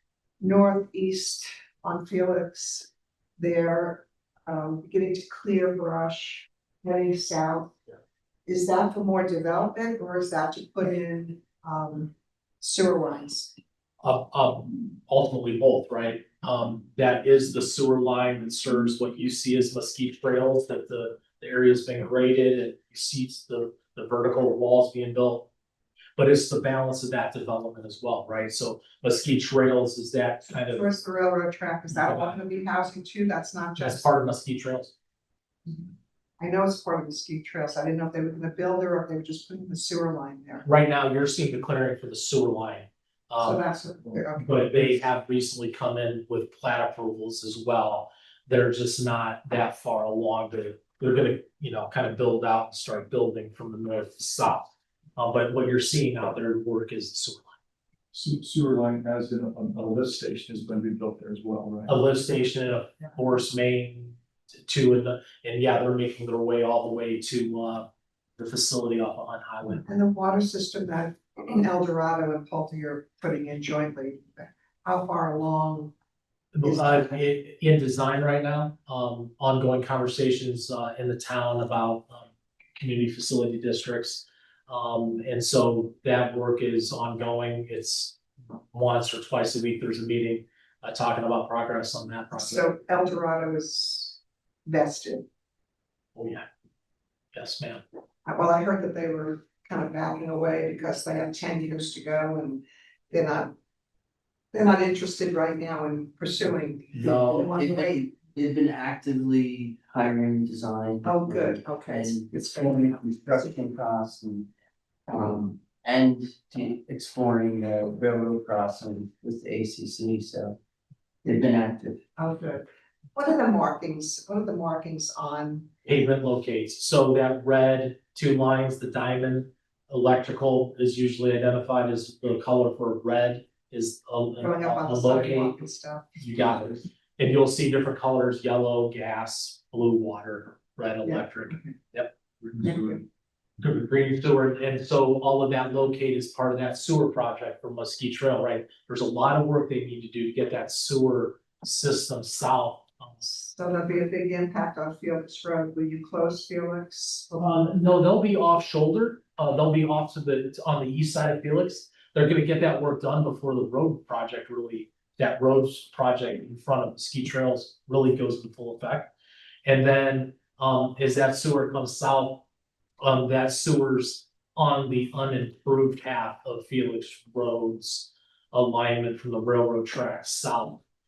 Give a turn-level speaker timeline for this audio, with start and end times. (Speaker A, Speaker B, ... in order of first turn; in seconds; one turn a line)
Speaker A: 0.4-2.9
Speaker A: 3.4-7.7
Speaker A: 8.5-13.5
Speaker B: 14.0-25.5
Speaker B: 26.2-30.9
Speaker A: 30.7-34.1
Speaker B: 31.9-32.4
Speaker B: 33.8-34.9
Speaker A: 35.6-40.7
Speaker B: 40.6-43.6
Speaker A: 43.4-45.0
Speaker B: 44.4-57.6
Speaker C: 58.1-61.9
Speaker B: 61.9-69.8
Speaker A: 69.8-75.9
Speaker B: 76.5-88.2
Speaker A: 76.6-77.2
Speaker B: 88.7-92.7
Speaker A: 92.3-95.2
Speaker B: 96.2-96.4
Speaker B: 97.3-97.8
Speaker A: 98.2-103.5
Speaker A: 104.5-108.0
Speaker B: 107.0-107.5
Speaker D: 107.1-114.5
Speaker A: 111.0-113.0
Speaker D: 115.1-120.5
Speaker D: 121.2-122.0
Speaker A: 122.2-125.7
Speaker B: 125.8-135.6
Speaker A: 134.4-136.1
Speaker B: 136.2-142.8
Speaker A: 141.0-141.7
Speaker A: 142.6-143.0
Speaker B: 143.6-153.1
Speaker A: 153.2-157.7
Speaker B: 157.4-169.1
Speaker B: 169.6-172.4
Speaker B: 173.0-180.8